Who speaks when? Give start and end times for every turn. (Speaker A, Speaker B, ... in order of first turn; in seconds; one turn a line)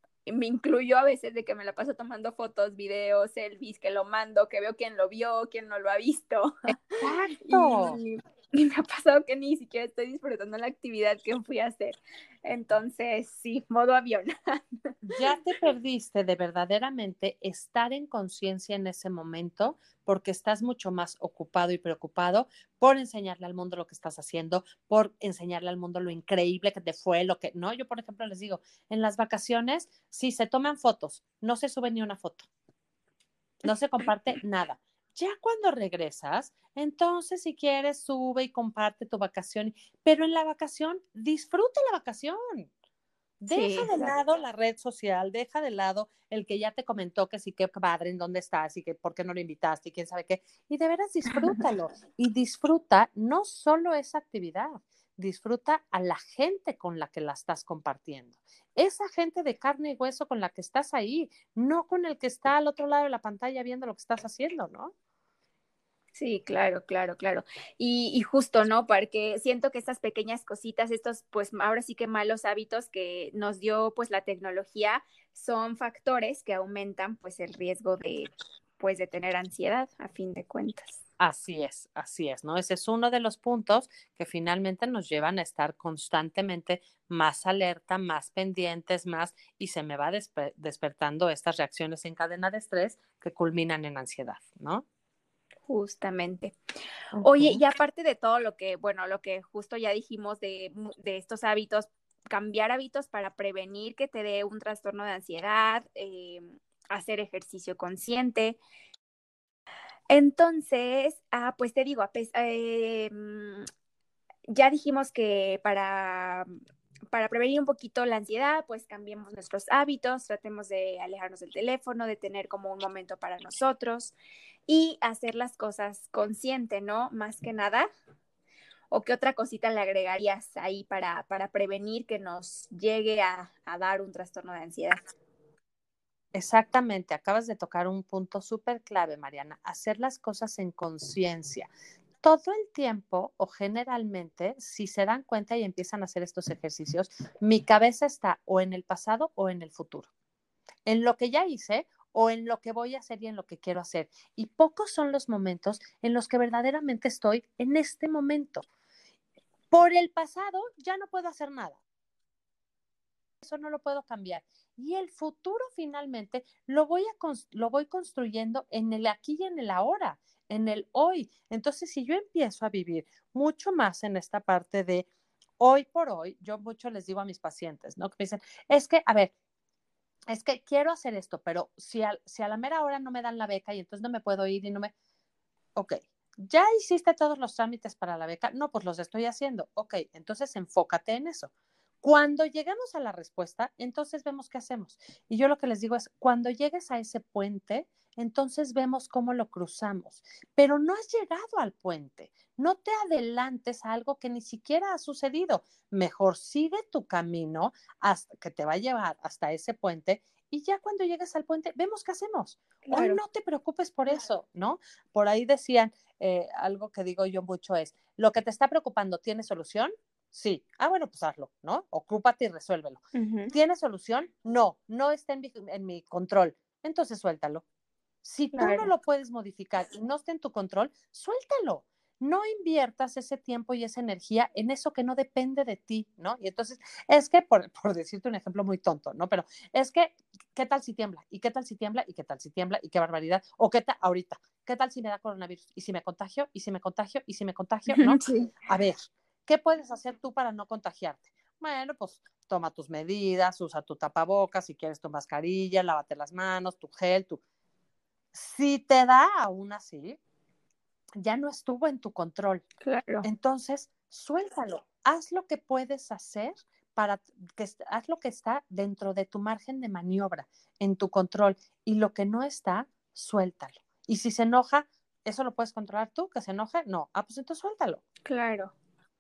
Speaker A: 0.3-6.8
Speaker B: 7.0-8.0
Speaker A: 7.4-14.6
Speaker B: 15.1-32.5
Speaker B: 33.6-42.7
Speaker B: 43.4-64.9
Speaker A: 43.5-44.1
Speaker A: 51.3-51.6
Speaker A: 66.2-81.0
Speaker B: 81.2-94.8
Speaker A: 95.7-96.6
Speaker B: 97.1-97.6
Speaker A: 97.2-108.6
Speaker A: 110.1-113.7
Speaker A: 114.5-116.5
Speaker A: 117.1-124.2
Speaker A: 124.7-127.9
Speaker A: 128.9-135.0
Speaker B: 136.3-141.7
Speaker B: 142.2-150.1
Speaker B: 150.9-158.7
Speaker B: 159.7-161.8
Speaker B: 163.4-175.1
Speaker B: 175.6-179.3
Speaker B: 180.3-184.9
Speaker B: 185.8-191.5
Speaker B: 192.0-223.0
Speaker A: 212.8-213.2
Speaker A: 223.1-223.5
Speaker B: 223.5-227.6
Speaker B: 228.2-257.4
Speaker A: 228.5-228.9
Speaker A: 247.9-248.5
Speaker B: 258.3-260.2
Speaker B: 261.2-262.6
Speaker A: 262.8-263.3
Speaker B: 263.2-278.0
Speaker A: 278.3-278.7